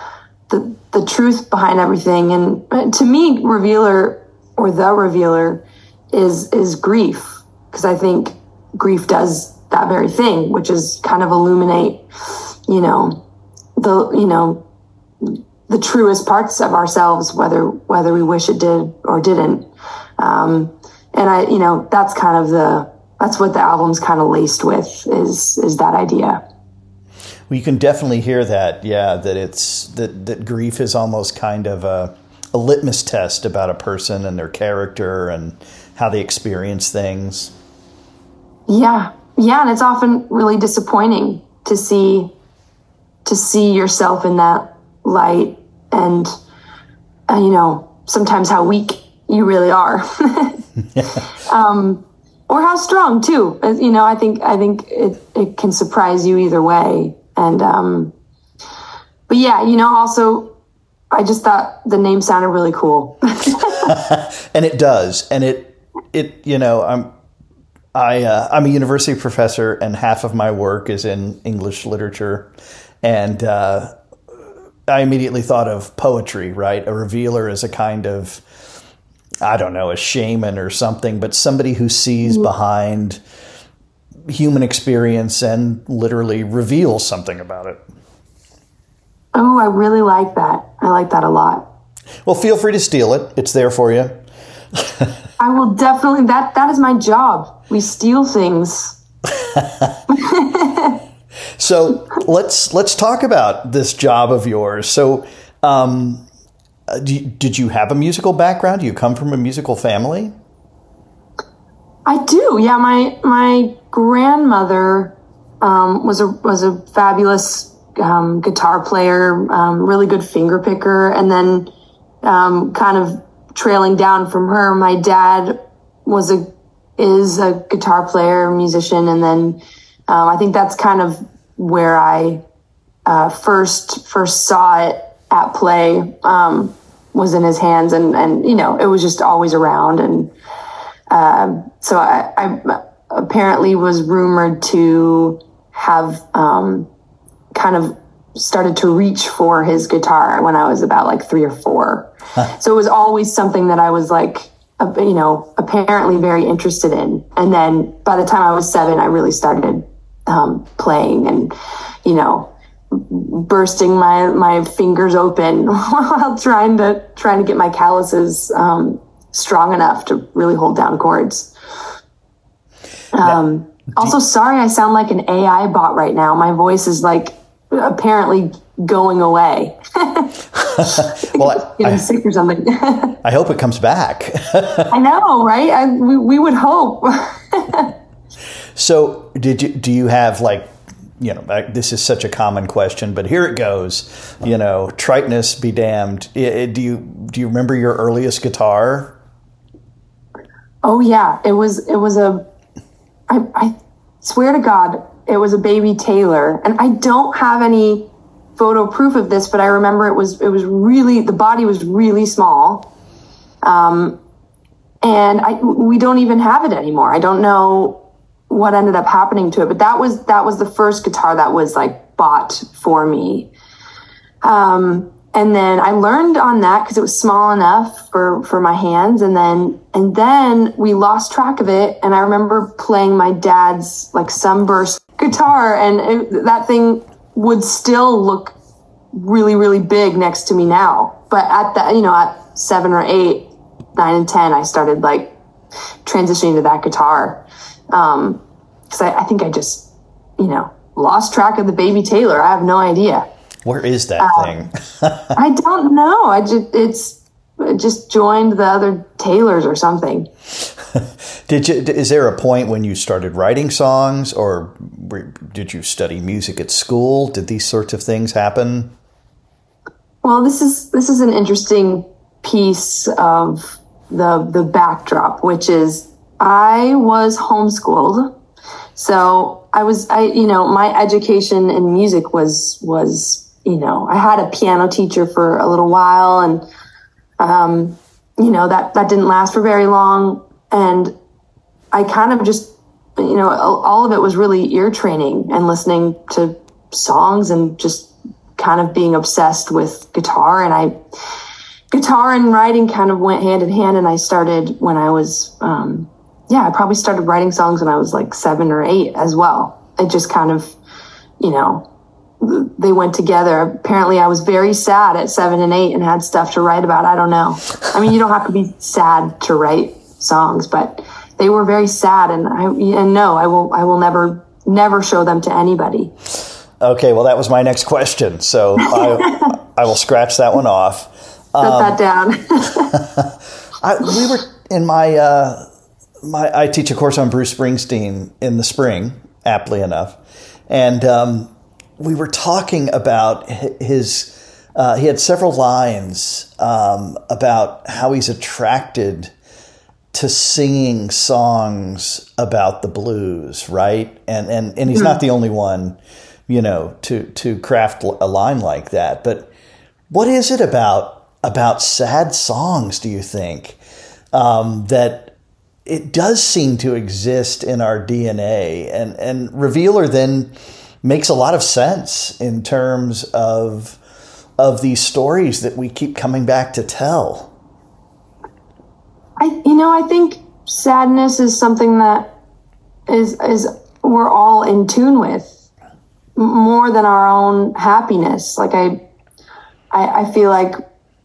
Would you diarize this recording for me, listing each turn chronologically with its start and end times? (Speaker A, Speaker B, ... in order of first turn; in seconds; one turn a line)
Speaker A: 0.5-12.0
Speaker A: 12.7-13.2
Speaker A: 13.8-14.6
Speaker A: 15.2-26.4
Speaker B: 27.5-37.5
Speaker A: 38.7-42.3
Speaker A: 43.2-46.3
Speaker A: 47.3-50.6
Speaker A: 51.3-58.1
Speaker A: 59.3-60.5
Speaker A: 61.1-63.9
Speaker B: 63.7-67.1
Speaker B: 67.9-72.5
Speaker B: 73.0-73.9
Speaker B: 74.9-78.4
Speaker B: 79.4-83.2
Speaker B: 84.3-87.8
Speaker A: 89.3-91.7
Speaker B: 92.2-94.2
Speaker B: 94.7-95.1
Speaker A: 95.4-99.0
Speaker B: 99.4-99.9
Speaker A: 100.1-101.0
Speaker B: 101.6-106.2
Speaker B: 106.9-110.3
Speaker A: 112.0-121.7
Speaker A: 122.2-132.4
Speaker A: 133.1-140.3
Speaker A: 141.1-146.9
Speaker A: 147.5-171.5
Speaker A: 173.1-183.2
Speaker B: 180.6-182.0
Speaker B: 183.2-184.9
Speaker A: 184.9-187.9
Speaker B: 188.8-199.1
Speaker A: 200.8-202.4
Speaker A: 203.3-212.9
Speaker A: 213.6-214.2
Speaker A: 215.0-223.5
Speaker A: 224.4-238.5
Speaker A: 239.1-245.3
Speaker A: 246.0-253.3
Speaker B: 253.6-255.3
Speaker A: 254.2-254.5
Speaker A: 255.3-260.3
Speaker B: 260.8-268.9
Speaker A: 270.2-278.3
Speaker A: 278.9-286.6
Speaker A: 287.4-291.1
Speaker A: 291.9-300.9
Speaker A: 301.9-310.7
Speaker A: 311.4-311.8
Speaker A: 312.4-326.1
Speaker B: 326.8-332.0
Speaker A: 328.9-329.5
Speaker A: 331.6-332.9
Speaker B: 332.9-335.6
Speaker B: 336.2-340.2
Speaker B: 340.7-349.3
Speaker B: 350.1-359.5
Speaker A: 354.9-355.2
Speaker B: 360.1-363.8
Speaker B: 364.3-365.3
Speaker B: 365.9-374.0
Speaker B: 374.6-377.5
Speaker A: 379.4-382.3
Speaker A: 383.1-385.5
Speaker A: 386.4-389.0
Speaker A: 389.9-390.8